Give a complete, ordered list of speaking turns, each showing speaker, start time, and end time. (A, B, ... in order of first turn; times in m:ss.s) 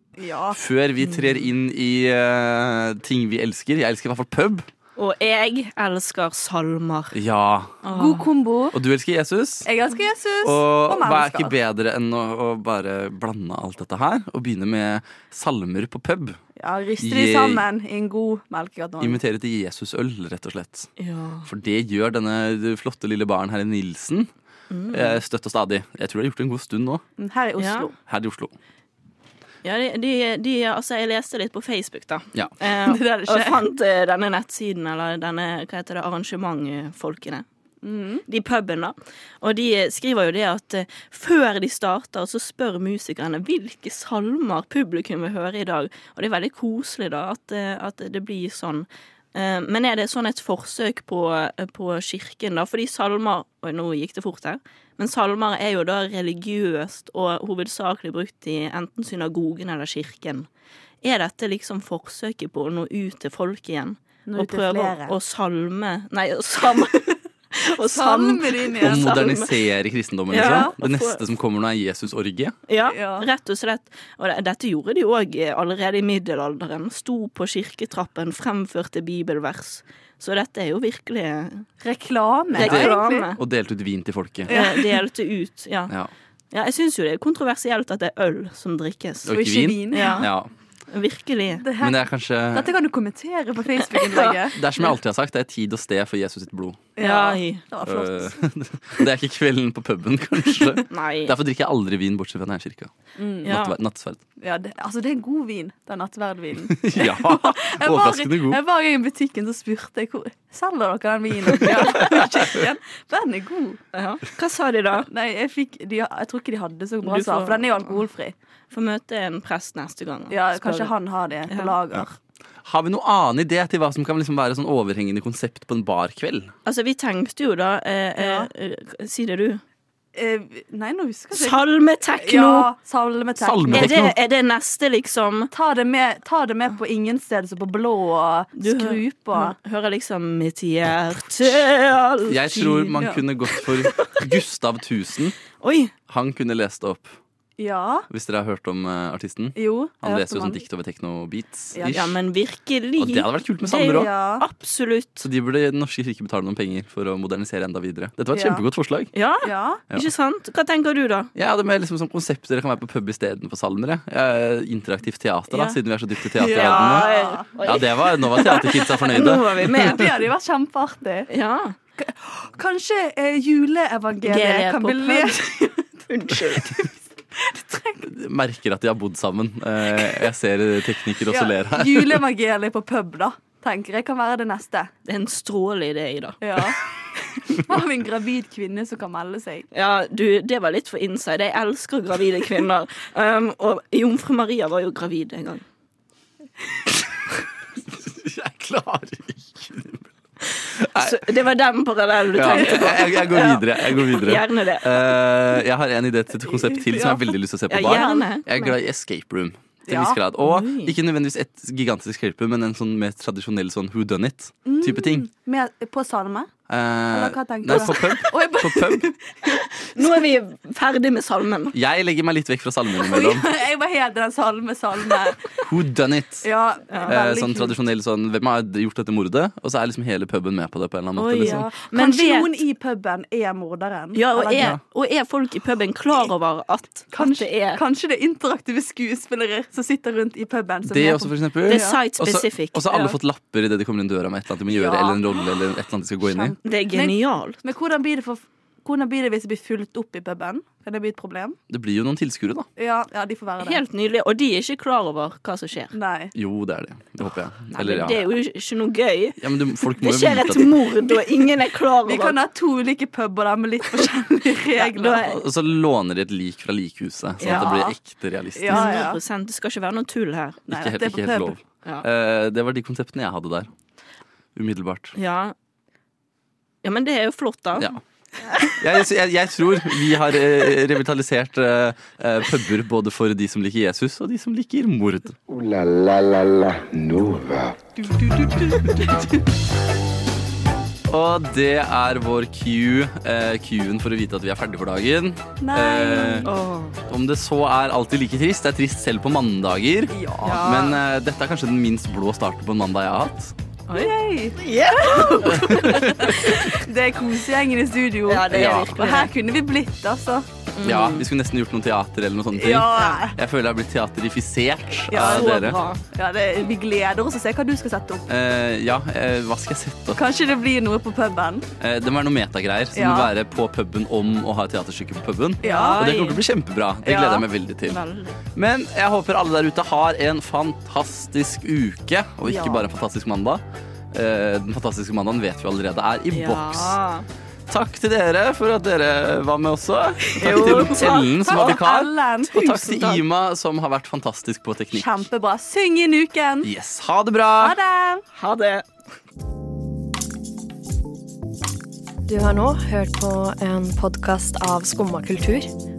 0:00.2-0:00.6 A
0:00.5-0:04.7 B
0:01.0-0:01.5 C
0:05.0-0:07.2 C
0:07.1-0:07.8 B
0:07.8-0:08.3 C
0:07.9-0:08.8 A
0:08.7-0:09.7 B
0:09.6-0:11.5 A
0:10.4-0:16.4 B
0:16.6-0:19.2 A
0:17.0-0:17.6 B
0:19.0-0:20.9 B
0:21.0-0:21.5 C
0:21.4-0:24.3 B
0:24.7-0:25.2 C
0:24.9-0:27.0 B
0:27.2-0:27.9 A
0:27.6-0:27.9 C
0:28.1-0:28.5 B
0:29.6-0:37.4 C
0:32.8-0:33.6 A
0:37.8-0:38.2 A
0:38.3-1:00.5 C
1:01.0-1:09.5 C
1:04.3-1:05.2 A
1:07.9-1:09.2 A
1:08.8-1:12.6 B
1:10.3-1:11.2 C
1:10.4-1:10.7 A
1:12.7-1:21.7 C
1:12.9-1:13.3 A
1:21.8-1:23.3 A
1:22.6-1:23.4 C
1:22.6-1:24.6 B
1:24.5-1:25.9 C
1:24.5-1:25.0 A
1:26.5-1:29.4 C
1:29.3-1:30.5 B
1:29.3-1:30.3 A
1:29.9-1:30.3 C
1:30.9-1:31.6 C
1:31.6-1:34.6 A
1:31.8-1:32.7 B
1:33.9-1:34.4 C
1:34.5-1:36.8 B
1:37.0-1:38.4 A
1:37.0-1:37.6 C
1:37.8-1:42.9 B
1:40.7-1:41.3 C
1:43.2-1:43.5 A
1:43.4-1:43.8 C
1:43.4-1:44.2 B
1:44.4-1:53.8 A
1:46.7-1:48.6 B
1:51.6-1:52.1 C
1:53.9-1:55.1 C
1:55.1-1:58.3 A
1:57.0-1:58.0 C
1:58.7-2:00.9 C
2:00.3-2:02.2 A
2:01.5-2:01.8 C
2:02.6-2:06.5 B
2:06.6-2:09.6 C
2:08.2-2:08.5 A
2:10.2-2:14.1 A
2:11.3-2:12.7 C
2:13.4-2:14.2 B
2:13.7-2:15.5 C
2:15.5-2:19.6 A
2:18.6-2:23.0 C
2:22.3-2:25.4 B
2:23.0-2:23.2 A
2:23.5-2:24.2 C
2:25.6-2:25.9 C
2:26.1-2:27.2 B
2:27.6-2:28.1 A
2:28.1-2:32.2 B
2:29.6-2:30.6 A
2:31.7-2:32.0 A
2:31.9-2:35.3 C
2:33.0-2:34.1 B
2:33.8-2:34.4 A
2:35.2-2:39.1 B
2:38.3-2:38.6 A
2:39.1-2:41.3 C
2:39.4-2:39.8 A
2:41.4-2:47.1 B
2:46.3-2:47.8 A
2:46.5-2:50.1 C
2:47.6-2:49.7 B
2:48.4-2:48.6 A
2:49.6-2:51.3 A
2:51.3-2:51.8 C
2:52.0-2:58.1 A
2:54.2-2:55.4 C
2:56.1-2:56.8 C
2:58.0-3:02.2 B
3:01.3-3:04.9 A
3:05.0-3:06.4 C
3:06.4-3:06.8 A
3:07.4-3:09.7 A
3:09.7-3:15.6 C
3:17.9-3:20.1 B
3:20.7-3:21.3 B
3:21.0-3:25.2 C
3:22.4-3:35.3 B
3:22.5-3:23.0 A
3:26.5-3:28.3 A
3:27.7-3:28.7 C
3:29.9-3:30.2 A
3:30.4-3:31.0 C
3:34.6-3:36.5 A
3:36.7-3:39.1 B
3:37.1-3:39.9 A
3:40.0-3:41.8 C
3:41.7-3:43.5 B
3:43.0-3:45.6 A
3:45.6-3:46.5 B
3:46.4-3:47.8 A
3:46.9-3:47.2 C
3:47.1-3:51.7 B
3:51.2-3:52.6 C
3:51.4-3:54.8 A
3:54.1-3:57.8 C
3:57.1-4:02.0 A
4:00.9-4:06.6 B
4:01.7-4:02.8 C
4:02.9-4:03.2 A
4:04.7-4:05.3 A
4:06.2-4:11.6 A
4:06.6-4:07.6 C
4:11.7-4:12.7 B
4:12.8-4:13.8 A
4:13.6-4:15.9 C
4:15.9-4:16.3 A
4:16.4-4:18.2 B
4:17.7-4:22.4 C
4:19.4-4:20.9 B
4:22.1-4:25.3 A
4:24.8-4:25.4 C
4:25.1-4:29.0 B
4:27.4-4:27.7 C
4:27.4-4:28.0 A
4:28.6-4:29.2 A
4:28.7-4:30.6 C
4:30.7-4:31.5 A
4:30.7-4:33.7 B
4:34.6-4:35.2 B
4:35.2-4:35.6 C
4:36.8-4:37.9 C
4:38.4-4:38.8 C
4:38.6-4:45.4 B
4:45.5-4:47.8 D
4:48.0-4:49.2 A
4:51.1-4:56.5 B
4:55.6-4:56.5 A
4:56.4-4:57.0 C
4:57.1-5:03.5 B
5:00.1-5:00.8 A
5:00.4-5:01.0 C
5:03.9-5:06.6 C
5:03.9-5:10.5 A
5:05.5-5:06.4 B
5:08.3-5:09.3 C
5:08.5-5:08.9 B
5:10.7-5:11.3 C
5:10.8-5:15.8 B
5:12.6-5:13.4 A
5:13.0-5:13.3 C
5:15.1-5:15.6 A
5:15.1-5:16.0 C
5:16.1-5:18.3 A
5:18.3-5:20.2 B
5:20.2-5:21.7 A
5:21.8-5:28.0 B
5:22.9-5:23.3 A
5:25.6-5:26.0 A
5:25.6-5:26.4 C
5:27.0-5:27.4 A
5:27.9-5:28.4 C
5:28.5-5:37.0 B
5:32.5-5:32.8 A
5:36.3-5:37.3 C
5:37.7-5:45.1 B
5:40.4-5:41.8 C
5:40.4-5:43.1 A
5:44.9-5:46.7 A
5:46.6-5:47.8 B
5:47.6-5:48.2 A
5:48.3-5:48.8 C
5:52.3-5:55.7 E